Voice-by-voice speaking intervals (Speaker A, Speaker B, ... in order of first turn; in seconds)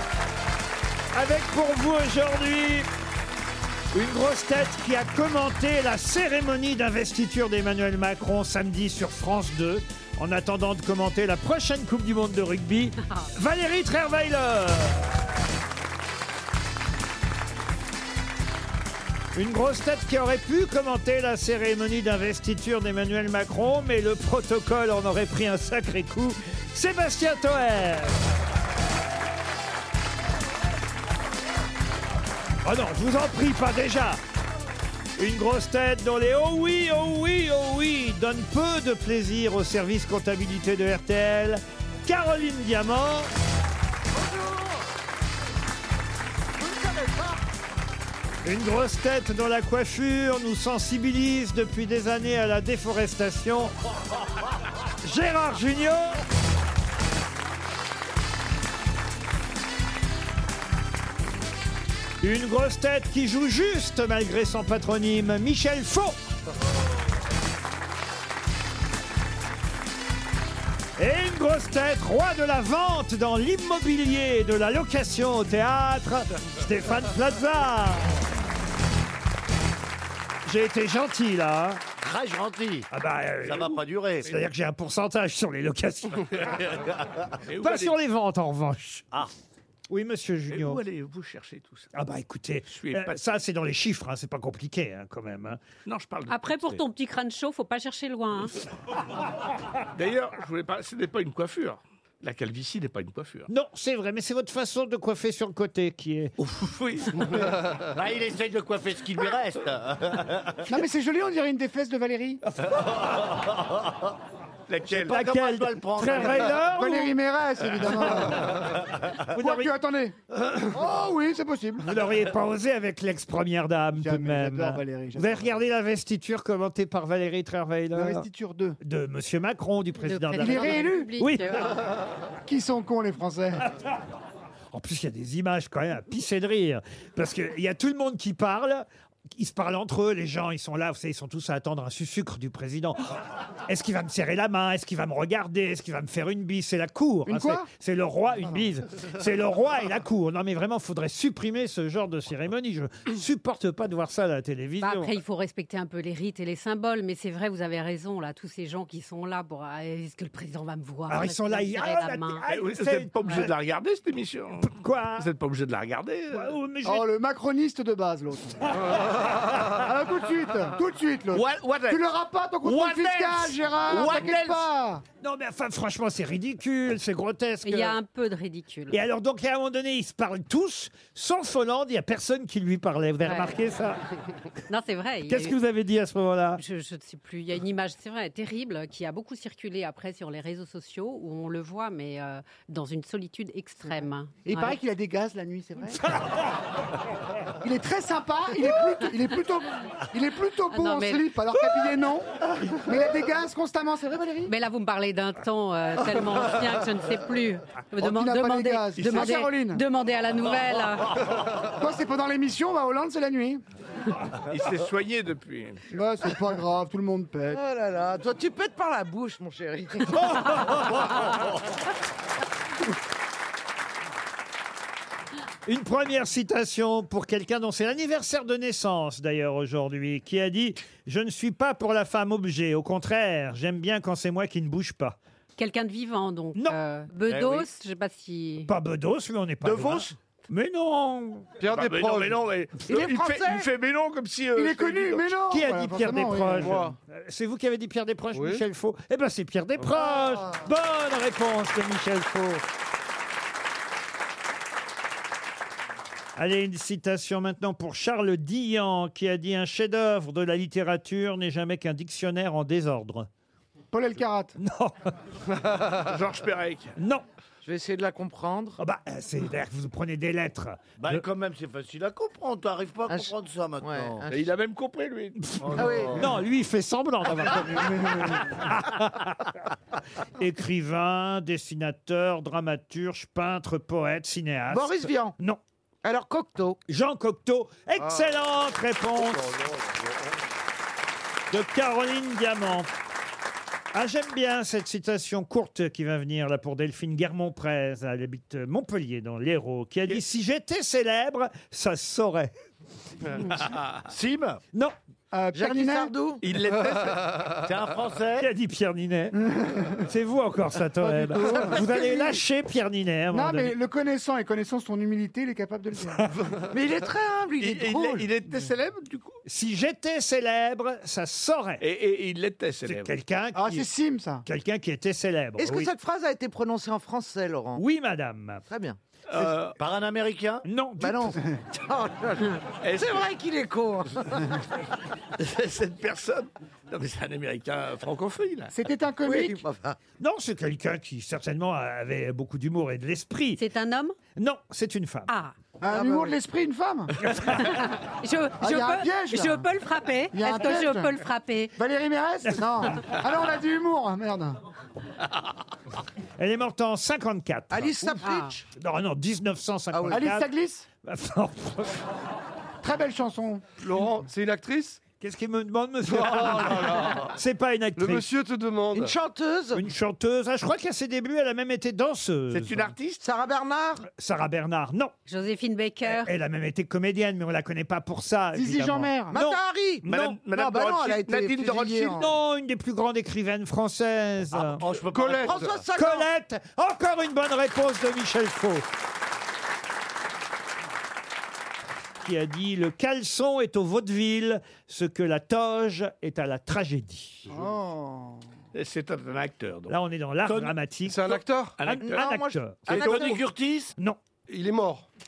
Speaker A: 1.1-2.9, 3.9-15.2, 19.4-28.2, 32.6-34.2, 35.2-43.3, 48.4-53.7, 55.0-56.2, 62.2-66.2, 71.0-78.2, 80.5-81.8, 82.9-86.7, 87.6-89.1, 89.9-90.8, 91.9-95.6, 103.5-106.3, 115.0-117.1, 119.3-119.7, 121.8-128.3, 128.8-131.7, 134.7-143.0, 143.7-155.2, 161.1-163.5, 164.6-165.3, 166.3-167.1, 175.2-178.0, 178.9-184.0, 185.3-186.6, 220.2-221.0, 225.7-235.2, 238.7-241.5, 245.5-252.6, 256.4-263.3, 264.6-265.1, 267.0-267.2, 268.8-271.2, 276.1-279.5, 280.4-285.6, 286.9-289.5, 291.5-292.9, 293.9-302.5, 308.4-309.4, 310.0-313.7, 319.5-321.8, 322.9-323.9, 324.4-325.9, 327.8-328.6, 330.6-331.4, 340.2-343.6, 344.4-345.3, 347.3-347.6, 352.4-352.9, 356.4-360.5, 361.0-362.1, 365.2-368.2, 369.7-372.9, 374.2-375.1, 376.1-380.4, 382.1-384.8, 385.9-388.9, 392.2-397.5, 399.9-403.3
Speaker B: 44.1-44.7, 46.6-47.4, 217.5-220.6, 242.8-243.7, 267.6-268.8, 273.1-274.4, 275.8-276.2, 284.7-285.4, 286.0-286.8, 305.5-306.4, 316.7-318.3, 325.6-327.8, 328.7-329.0, 331.0-334.4, 339.3-340.0, 345.9-346.4, 357.7-358.6, 359.9-360.2, 368.9-369.9, 373.2-374.1, 379.3-382.3, 385.4-386.3, 402.0-403.4
Speaker C: 82.0-82.9, 83.4-84.3, 86.6-87.4, 107.9-110.7, 113.1-113.8, 114.9-116.6, 237.3-237.7, 271.0-274.3, 275.6-276.3, 289.5-290.1, 304.1-304.6, 307.6-308.5, 329.8-330.6, 384.5-385.9, 402.9-403.9
Speaker D: 87.4-88.0, 90.5-91.9, 92.7-93.2, 95.9-96.8, 99.9-103.5, 106.4-107.9, 114.7-115.2, 162.5-166.5, 171.3-172.0, 172.6-174.7, 209.0-209.3, 214.5-215.9, 239.7-240.1, 241.7-245.3, 265.6-266.9, 274.3-276.0, 303.3-303.9, 306.4-307.7, 317.6-319.4, 321.8-323.1, 329.3-329.8, 332.8-333.3, 335.4-338.7, 372.5-373.2, 380.1-382.2, 384.9-385.6, 398.7-400.7, 401.8-402.3
Speaker E: 96.3-98.5, 130.0-131.9, 154.8-162.4, 177.7-179.0, 183.2-183.6, 184.7-185.6, 186.6-194.8, 200.7-201.3, 204.5-211.2, 235.6-238.7, 343.6-344.2, 345.3-345.6, 347.5-351.8, 358.2-358.6, 375.3-376.3
Speaker F: 110.7-112.4, 116.2-118.7, 119.3-120.2, 120.7-121.9, 124.0-125.6, 127.9-128.8, 130.4-131.1, 132.4-133.7, 147.3-147.7, 166.8-168.7, 169.6-175.0, 194.4-196.0, 197.6-204.5, 208.0-209.8, 211.6-213.6, 215.9-217.6, 244.6-246.8, 263.9-264.6, 277.3-278.6, 305.3-306.1, 309.4-310.0, 311.0-312.0, 313.3-316.3, 323.6-324.4, 338.7-339.6, 345.8-347.2, 348.6-349.7, 350.3-351.2, 351.8-354.6, 360.1-360.9, 362.8-363.6, 378.5-379.4, 397.5-398.5
Speaker G: 241.6-242.4, 246.6-247.0, 248.3-248.6, 363.8-365.0, 366.3-367.2, 368.0-369.2, 385.2-385.5, 401.1-401.8, 404.5-405.1